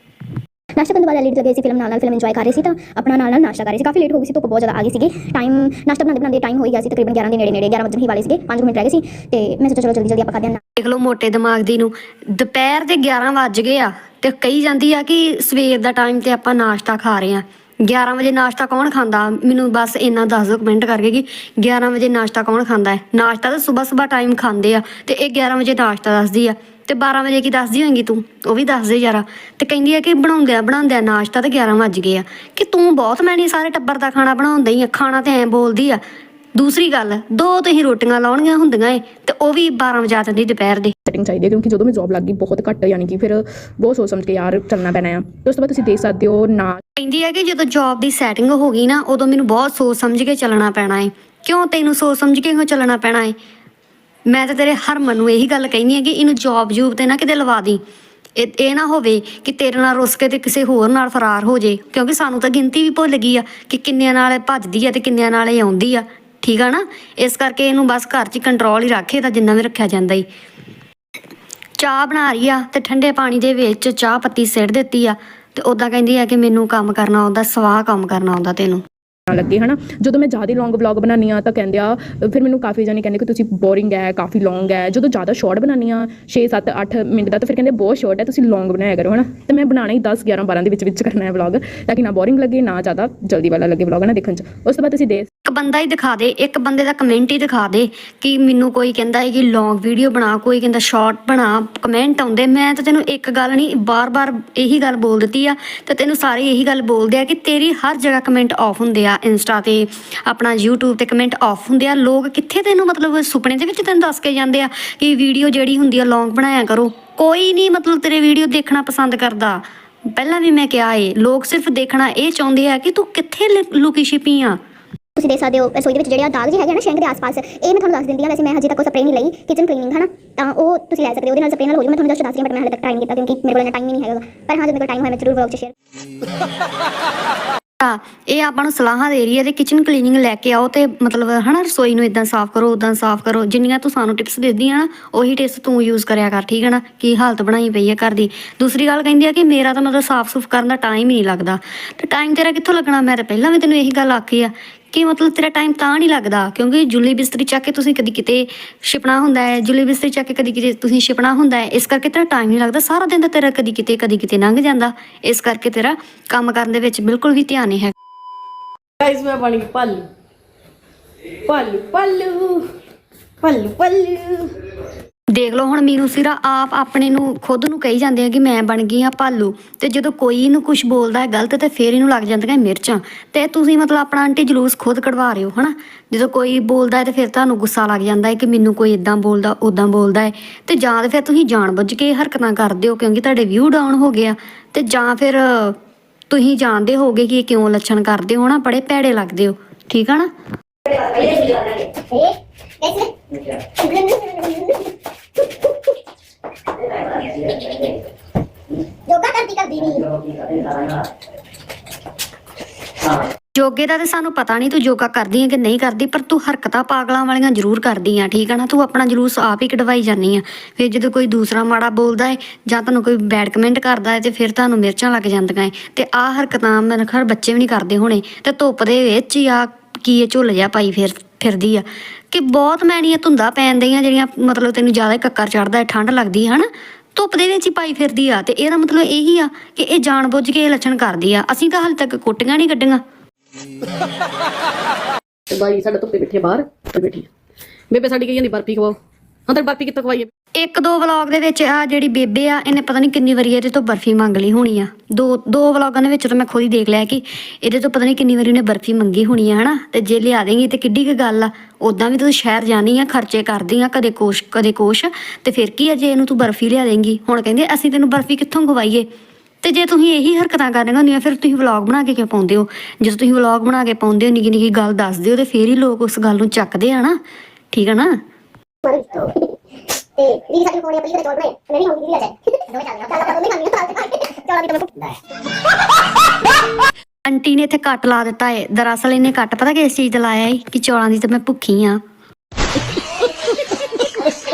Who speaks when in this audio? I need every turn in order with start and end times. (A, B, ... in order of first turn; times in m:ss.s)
0:00.8-0:10.6 A
0:10.8-0:36.0 B
0:36.6-0:40.9 B
0:41.1-0:46.8 C
0:47.0-0:53.4 B
0:54.3-0:57.8 B
0:58.4-1:10.3 B
1:11.8-1:18.8 B
1:19.3-1:35.3 C
1:35.5-2:04.6 B
2:05.2-2:15.7 A
2:17.8-2:47.9 B
2:49.0-2:50.0 D
2:51.5-2:52.6 D
2:53.4-2:54.5 D
2:55.3-3:15.8 B
3:16.3-3:20.3 B
3:23.9-3:24.3 E
3:33.5-4:03.0 B
4:05.5-4:07.3 D
4:07.9-4:09.0 D
4:09.5-4:10.3 D
4:10.6-4:29.1 B
4:29.6-4:37.2 B
4:37.7-4:38.1 B
4:38.9-4:39.3 E
4:40.2-4:45.1 E
4:47.2-4:52.0 B